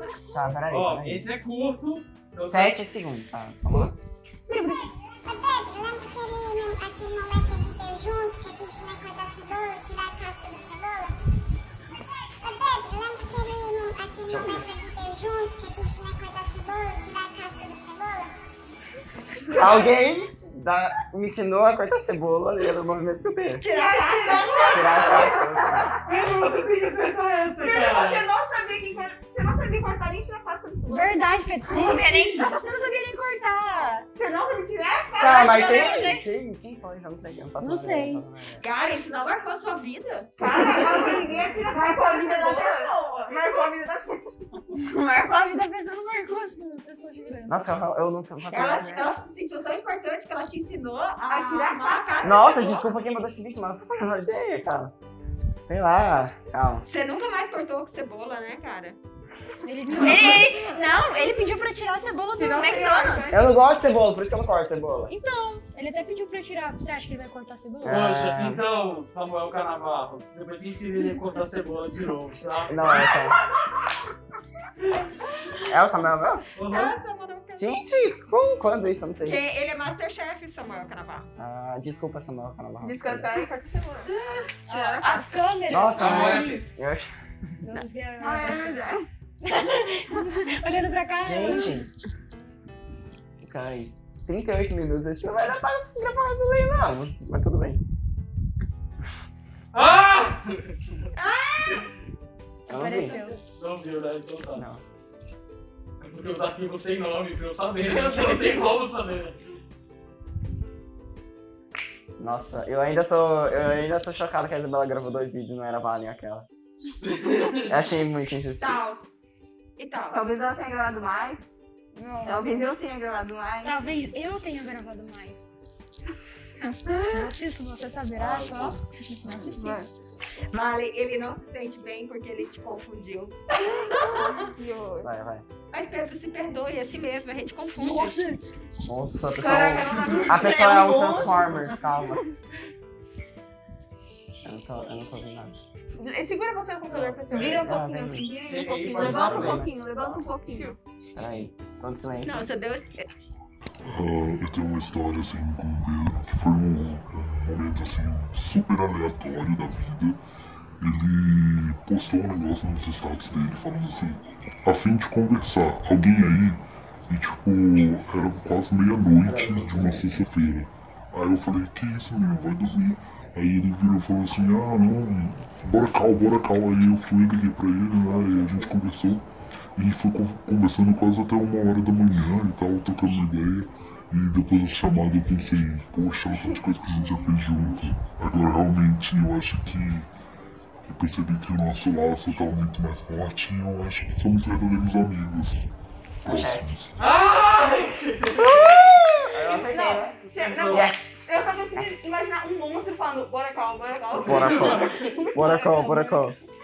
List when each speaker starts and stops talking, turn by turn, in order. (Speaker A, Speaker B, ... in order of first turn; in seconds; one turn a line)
Speaker A: 0.3-1.2
Speaker B: 0.7-2.8
Speaker A: 2.4-3.9
Speaker C: 4.7-11.1
Speaker C: 12.4-18.3
Speaker A: 14.3-14.7
Speaker A: 19.5-23.6
Speaker D: 23.6-25.5
Speaker E: 23.7-26.5
Speaker A: 24.7-25.9
Speaker B: 26.1-28.3
Speaker E: 27.6-31.2
Speaker F: 30.9-34.1
Speaker E: 31.7-32.5
Speaker E: 34.1-36.1
Speaker A: 35.2-38.6
Speaker F: 35.2-36.2
Speaker F: 37.6-38.2
Speaker D: 38.6-41.1
Speaker E: 40.4-44.5
Speaker G: 41.7-43.3
Speaker D: 42.8-43.3
Speaker F: 44.8-47.8
Speaker A: 47.5-49.1
Speaker D: 48.5-52.9
Speaker E: 51.3-52.4
Speaker A: 52.2-54.9
Speaker A: 55.6-56.8
Speaker D: 56.8-59.0
Speaker F: 59.6-63.3
Speaker E: 62.3-63.6
Speaker A: 63.3-65.1
Speaker F: 65.1-68.0
Speaker A: 67.8-68.6
Speaker B: 67.8-73.1
Speaker A: 72.7-73.4
Speaker A: 75.7-76.4
Speaker B: 76.5-77.0
Speaker D: 76.7-77.8
Speaker A: 77.5-79.4
Speaker D: 79.2-81.3
Speaker A: 81.4-83.3
Speaker E: 82.8-84.1
Speaker F: 84.7-86.6
Speaker D: 84.7-85.2
Speaker A: 85.7-87.1
Speaker B: 85.9-86.6
Speaker F: 87.6-88.8
Speaker G: 88.2-89.0
Speaker F: 89.4-91.9
Speaker A: 91.2-91.9
Speaker A: 93.4-97.8
Speaker B: 99.7-100.8
Speaker D: 101.2-101.8
Speaker A: 102.7-103.2
Speaker F: 102.7-103.4
Speaker B: 103.4-104.7
Speaker A: 104.5-104.8
Speaker B: 106.0-109.4
Speaker G: 107.9-108.7
Speaker A: 112.2-116.5
Speaker B: 117.0-117.7
Speaker A: 117.7-118.8
Speaker D: 118.6-119.1
Speaker D: 119.8-120.2
Speaker G: 120.1-121.4
Speaker E: 121.9-122.7
Speaker G: 122.2-123.8
Speaker F: 123.6-125.5
Speaker F: 127.0-129.7
Speaker B: 128.1-128.8
Speaker B: 129.3-129.8
Speaker G: 129.6-129.9
Speaker D: 130.5-133.3
Speaker E: 133.9-135.1
Speaker A: 135.0-135.4
Speaker D: 135.7-138.1
Speaker F: 137.8-138.4
Speaker A: 138.8-142.2
Speaker E: 139.4-141.3
Speaker G: 140.4-141.4
Speaker A: 144.4-145.6
Speaker E: 146.0-147.7
Speaker A: 146.9-148.3
Speaker G: 147.3-150.8
Speaker B: 148.4-149.7
Speaker A: 148.9-149.8
Speaker E: 150.4-150.8
Speaker A: 151.1-152.5
Speaker D: 152.2-153.1
Speaker H: 153.8-160.2
Speaker H: 160.8-190.1
Speaker A: 169.2-170.1
Speaker H: 190.8-195.7
Speaker A: 196.2-196.7
Speaker H: 196.2-197.1
Speaker B: 197.0-198.7
Speaker A: 198.4-202.0
Speaker E: 199.4-205.3
Speaker B: 200.3-200.9
Speaker B: 204.1-205.2
Speaker A: 204.2-206.4
Speaker F: 205.3-206.3